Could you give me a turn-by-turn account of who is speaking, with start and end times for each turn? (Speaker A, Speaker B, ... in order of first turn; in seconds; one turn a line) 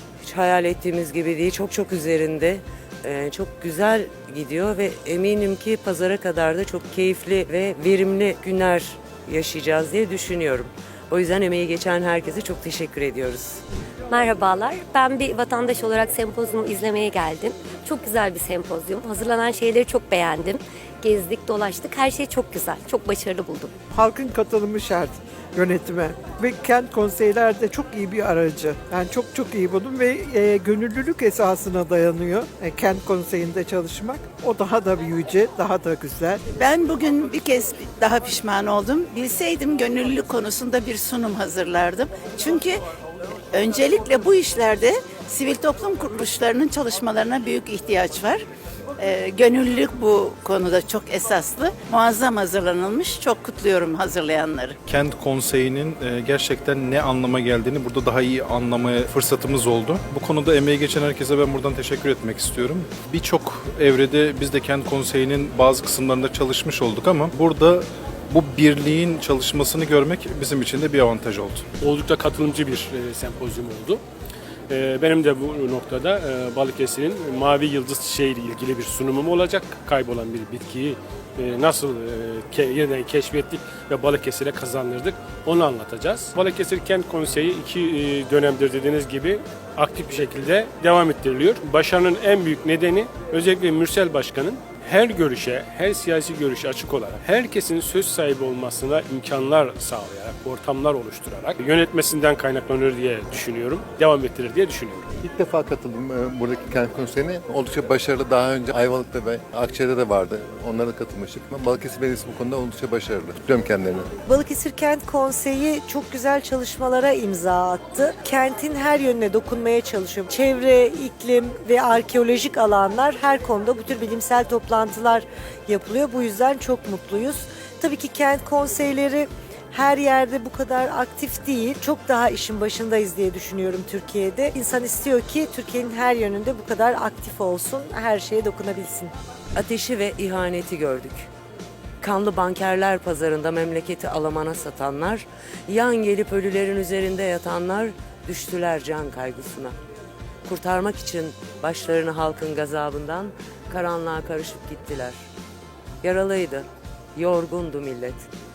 Speaker A: 0.2-13.6
Speaker B: 14.1-23.7
Speaker C: 23.9-36.4
Speaker D: 36.5-42.8
Speaker D: 43.5-48.4
Speaker D: 49.0-54.8
Speaker E: 54.9-71.6
Speaker F: 71.8-74.0
Speaker F: 74.7-105.1
Speaker G: 105.2-114.1
Speaker H: 114.2-139.1
Speaker A: 139.6-141.3
Speaker A: 142.0-149.8
Speaker A: 150.4-155.2
Speaker A: 156.0-158.3